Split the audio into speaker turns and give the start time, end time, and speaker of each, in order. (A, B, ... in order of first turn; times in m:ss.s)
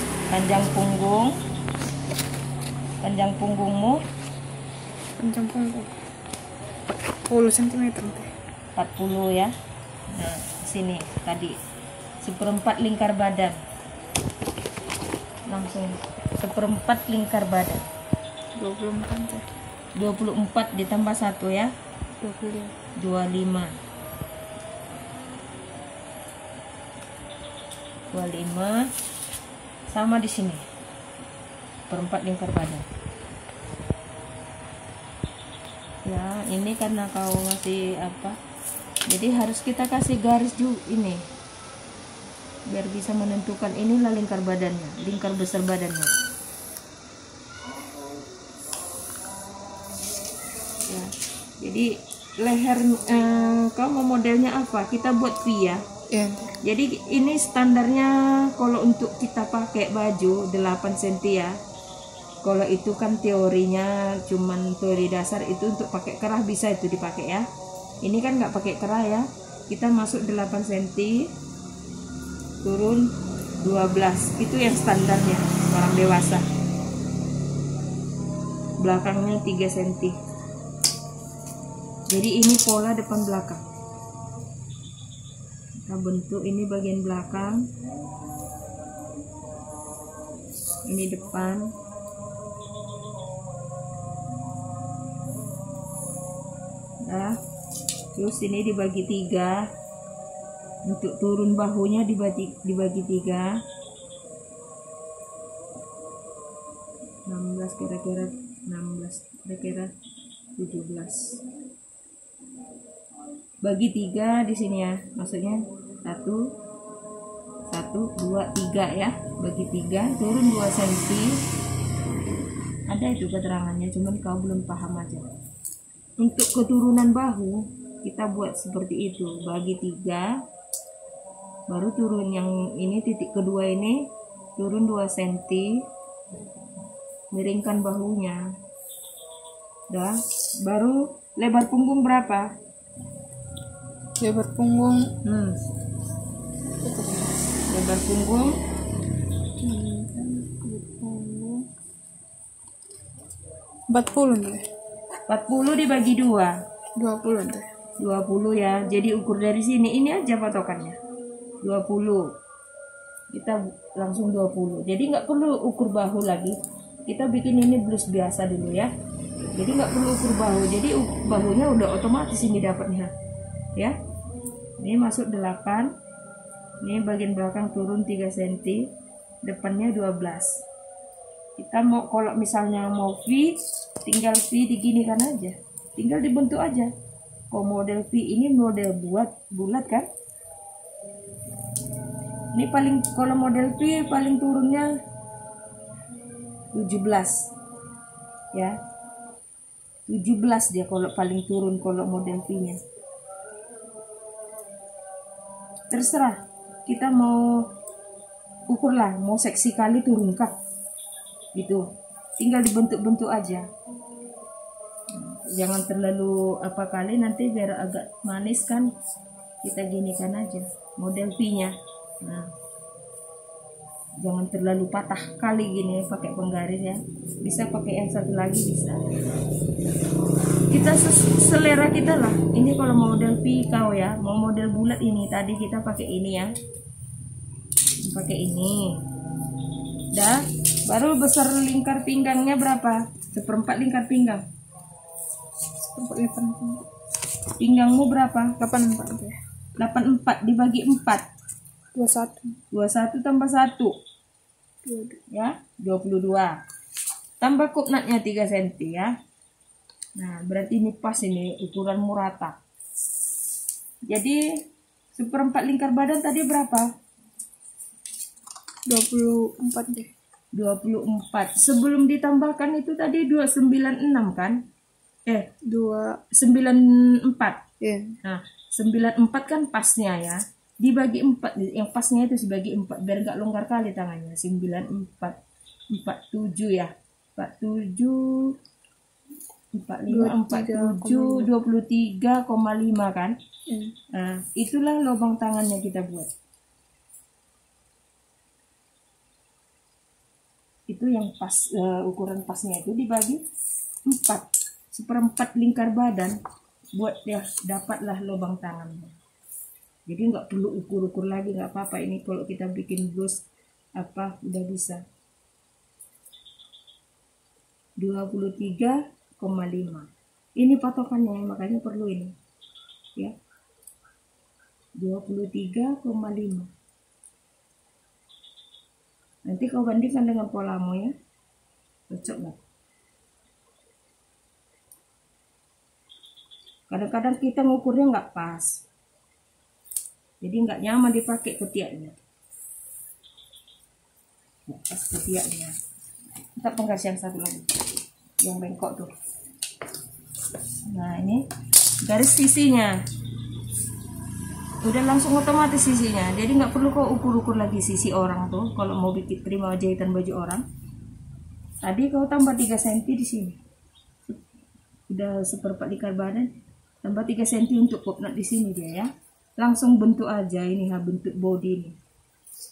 0:00.3-0:01.4 A
0:03.0-0:04.0 A
0:05.2-0:06.0 B
0:07.3-0:08.3 B
0:08.8-0:09.5 A
0:10.1-0:11.6 A
0:12.2-0:13.6 A
0:15.5-0:17.8 A
0:18.6-0:19.5 B
0:20.0-0:21.7 A
0:22.2-0:22.7 B
0:23.0-0:23.7 A
0:28.1-0:28.9 A
0:29.9-0:30.6 A
0:31.9-0:32.8 A
0:36.1-0:38.4 A
0:39.1-0:41.2 A
0:42.7-0:46.1 A
0:50.9-0:55.8 A
0:56.1-0:56.6 B
0:56.6-1:01.5 A
1:02.4-1:07.5 A
1:08.0-1:11.3 A
1:12.6-1:13.0 A
1:13.6-1:16.4 A
1:18.8-1:20.2 A
1:22.1-1:23.6 A
1:25.9-1:27.6 A
1:30.9-1:31.7 A
1:37.1-1:37.4 A
1:38.2-1:39.6 A
1:40.9-1:43.5 A
1:47.3-1:49.9 A
1:50.6-1:51.4 A
1:53.6-1:56.4 A
1:57.7-2:01.3 A
2:02.9-2:05.3 A
2:06.2-2:10.3 A
2:11.7-2:14.0 A
2:14.6-2:15.8 A
2:17.3-2:18.4 A
2:19.9-2:22.5 A
2:24.2-2:25.1 B
2:25.2-2:25.6 A
2:26.8-2:27.4 B
2:27.7-2:28.6 A
2:29.6-2:31.6 B
2:33.9-2:34.7 B
2:35.3-2:36.6 A
2:37.0-2:37.7 B
2:38.0-2:41.0 A
2:41.6-2:42.2 A
2:43.3-2:46.6 A
2:47.1-2:48.9 A
2:49.6-2:53.1 A
2:54.8-2:55.9 A
2:56.8-2:58.9 A
2:59.4-3:00.6 A
3:01.6-3:06.9 A
3:07.5-3:10.1 A
3:12.6-3:14.9 A
3:16.7-3:17.4 A
3:20.1-3:22.8 A
3:25.9-3:27.4 A
3:28.7-3:30.5 A
3:31.5-3:31.8 A
3:32.4-3:33.7 A
3:35.1-3:38.9 A
3:39.6-3:42.5 A
3:44.2-3:49.0 A
3:50.7-3:56.5 A
3:58.1-3:59.0 A
4:00.1-4:04.4 A
4:05.8-4:06.8 B
4:07.6-4:08.5 A
4:08.6-4:09.4 B
4:09.8-4:11.3 A
4:11.9-4:12.6 B
4:12.7-4:14.0 A
4:14.8-4:15.2 B
4:15.3-4:16.6 A
4:17.4-4:19.1 A
4:20.2-4:22.6 A
4:24.1-4:24.4 A
4:25.2-4:26.9 A
4:28.9-4:30.1 B
4:30.5-4:34.6 A
4:35.6-4:36.2 B
4:36.3-4:37.6 A
4:37.8-4:38.2 B
4:38.2-4:45.4 A
4:45.9-4:48.5 A
4:49.7-4:53.4 A
4:50.1-4:51.5 B
4:53.7-4:54.0 B
4:54.1-4:56.3 A
5:00.9-5:03.4 A
5:04.1-5:06.4 A
5:07.0-5:09.1 A
5:10.1-5:13.4 A
5:14.0-5:15.0 A
5:18.0-5:22.3 A
5:25.0-5:26.7 A
5:29.5-5:31.1 A
5:32.1-5:32.6 A
5:36.9-5:38.8 A
5:40.4-5:42.1 A
5:44.7-5:45.8 A
5:46.6-5:47.7 A
5:48.4-5:49.1 A
5:50.9-5:51.4 A
5:52.0-5:53.0 A
5:54.8-6:00.6 A
6:01.8-6:03.6 A
6:05.1-6:06.5 A
6:07.0-6:12.0 A